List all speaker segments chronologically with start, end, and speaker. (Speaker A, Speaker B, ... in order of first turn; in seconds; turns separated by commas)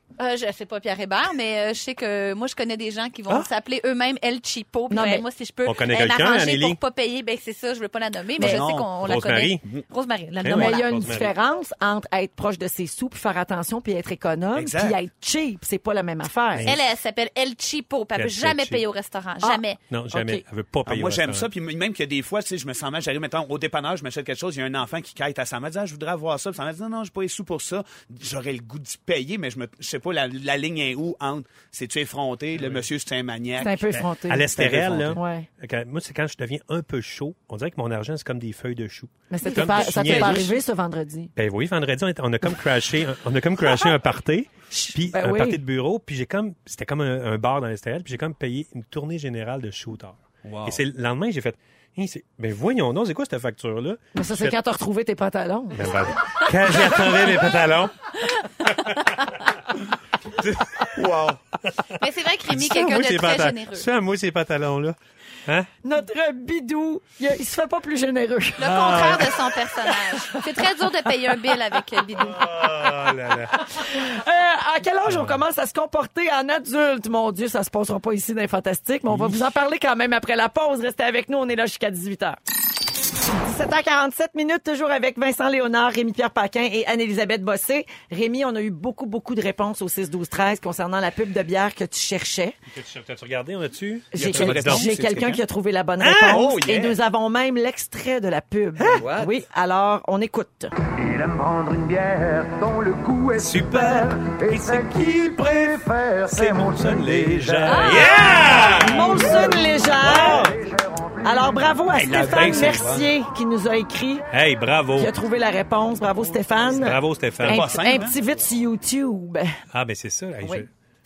Speaker A: 0.2-10.9, Speaker B: 4.9-5.2, Speaker C: 5.6-6.8, Speaker D: 8.4-8.9, Speaker C: 8.4-9.7, Speaker C: 10.4-11.3, Speaker B: 10.5-16.7, Speaker D: 14.5-15.0, Speaker C: 16.5-16.8, Speaker A: 16.6-19.8, Speaker C: 18.1-18.8, Speaker C: 19.9-21.5, Speaker B: 20.1-20.4, Speaker D: 20.9-35.2, Speaker C: 32.5-32.9, Speaker B: 33.6-35.5, Speaker C: 34.2-40.6, Speaker B: 39.3-41.3, Speaker A: 39.5-40.5, Speaker C: 41.4-54.6, Speaker B: 44.7-45.6, Speaker D: 50.4-50.8, Speaker B: 54.1-55.9, Speaker C: 55.7-58.0, Speaker C: 58.6-58.9, Speaker C: 60.4-60.9, Speaker D: 60.9-61.4, Speaker A: 62.0-63.9, Speaker C: 62.5-65.7, Speaker B: 65.8-71.8, Speaker A: 68.6-72.4, Speaker C: 68.6-69.4, Speaker C: 72.2-73.6, Speaker B: 72.5-82.4, Speaker C: 75.0-75.4, Speaker B: 83.3-92.5, Speaker C: 92.7-95.3, Speaker B: 94.1-100.7, Speaker D: 94.2-95.4, Speaker C: 96.0-96.5, Speaker D: 96.3-97.0, Speaker E: 98.9-99.3, Speaker E: 101.6-103.2, Speaker C: 103.3-104.7, Speaker E: 104.3-106.2, Speaker D: 106.2-109.3, Speaker C: 106.4-110.5, Speaker A: 107.7-108.4, Speaker B: 108.7-110.6, Speaker D: 110.0-110.5, Speaker B: 111.2-114.2, Speaker D: 111.9-113.1, Speaker C: 112.2-112.8, Speaker C: 114.3-115.1, Speaker B: 115.0-119.5, Speaker C: 116.7-118.0, Speaker D: 117.4-118.2, Speaker C: 119.7-120.7